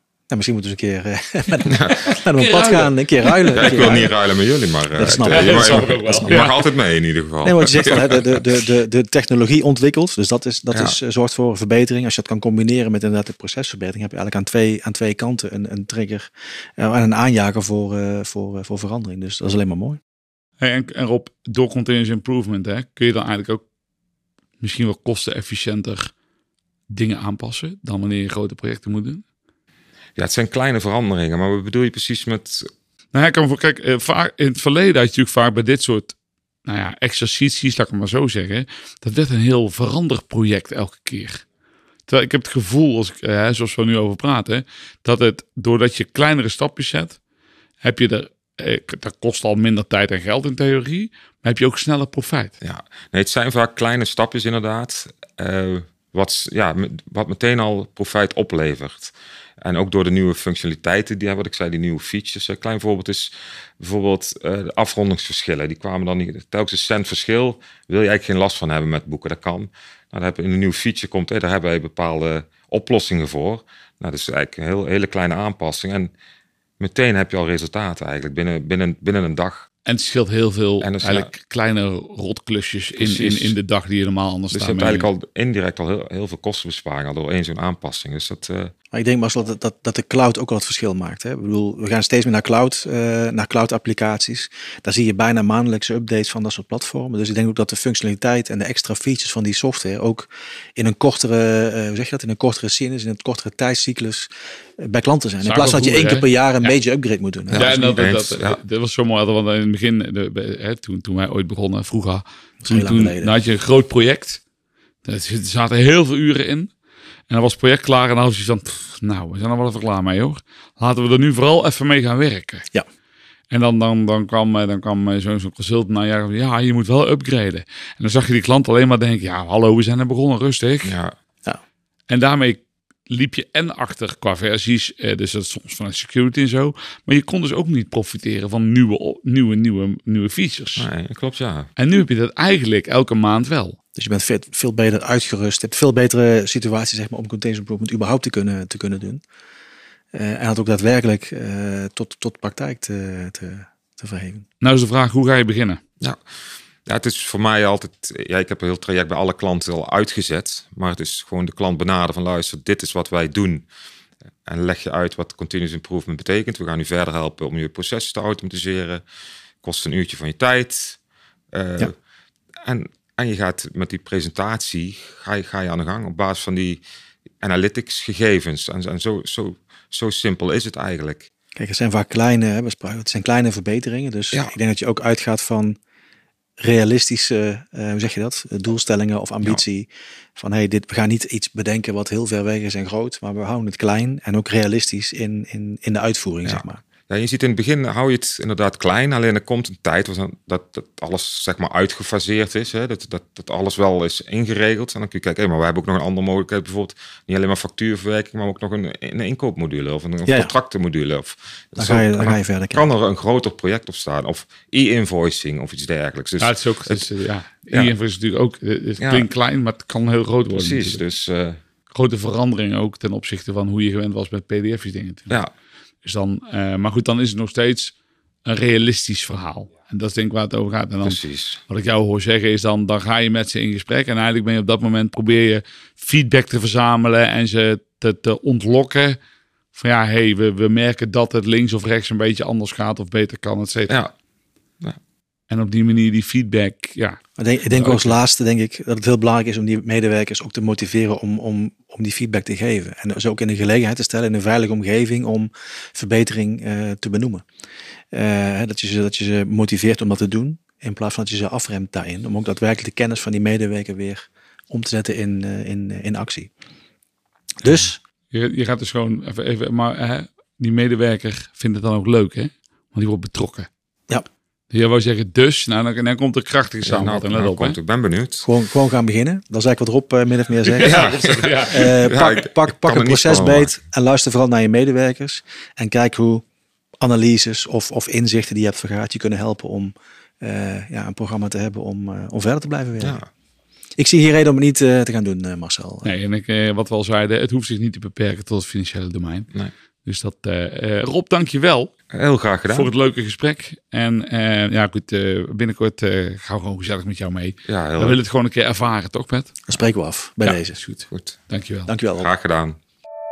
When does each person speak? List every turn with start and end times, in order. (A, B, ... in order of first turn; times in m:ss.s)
0:00.3-0:04.1 A
0:01.7-0:02.1 B
0:02.3-0:03.5 C
0:03.5-0:08.2 B
0:05.0-0:06.0 A
0:05.1-0:06.6 C
0:07.4-0:20.0 A
0:20.6-0:23.6 C
0:24.6-0:26.1 C
0:26.9-0:29.2 C
0:30.2-0:32.7 B
0:33.1-0:41.4 C
0:42.1-0:47.2 C
0:47.8-0:52.5 C
0:52.6-1:16.1 B
1:16.8-1:19.7 B
1:19.8-1:25.1 C
1:20.8-1:21.3 B
1:23.0-1:23.5 B
1:24.5-1:28.7 B
1:28.9-1:48.0 A
1:45.4-1:46.7 C
1:47.5-1:48.6 B
1:47.5-1:54.4 C
1:52.6-1:53.3 A
1:55.0-1:56.7 C
1:57.3-2:02.7 C
2:03.5-2:11.0 C
2:10.8-2:11.1 B
2:12.1-2:20.9 C
2:20.8-2:21.7 B
2:21.8-2:23.8 C
2:24.0-2:29.2 A
2:30.1-2:34.4 A
2:34.6-2:35.8 C
2:36.8-2:43.6 B
2:44.4-2:49.0 B
2:49.6-2:51.0 B
2:51.5-2:51.9 B
2:52.6-2:56.8 B
2:57.4-3:01.3 B
3:01.6-3:05.8 A
3:06.6-3:16.8 A
3:16.4-3:37.0 B
3:30.2-3:30.5 A
3:31.8-3:32.8 A
3:36.4-3:41.0 C
3:39.0-3:39.3 B
3:40.5-3:41.6 B
3:41.9-3:45.4 C
3:46.0-3:59.2 C
3:51.0-3:51.6 B
3:59.7-4:04.0 C
4:05.5-4:08.2 C
4:07.4-4:17.4 A
4:18.1-4:26.5 A
4:27.6-4:28.0 A
4:28.3-4:33.7 C
4:34.7-4:37.8 C
4:36.8-4:38.5 B
4:38.4-4:41.1 A
4:40.7-4:42.1 C
4:40.8-4:43.7 B
4:41.7-4:46.4 A
4:47.0-4:53.2 A
4:53.0-4:53.3 B
4:54.0-4:56.1 A
4:56.0-4:59.5 C
5:00.0-5:01.9 C
5:02.1-5:02.9 B
5:02.7-5:09.7 C
5:07.6-5:08.2 B
5:09.7-5:10.8 A
5:10.4-5:11.9 C
5:11.1-5:11.4 B
5:11.9-5:12.3 A
5:12.1-5:12.8 B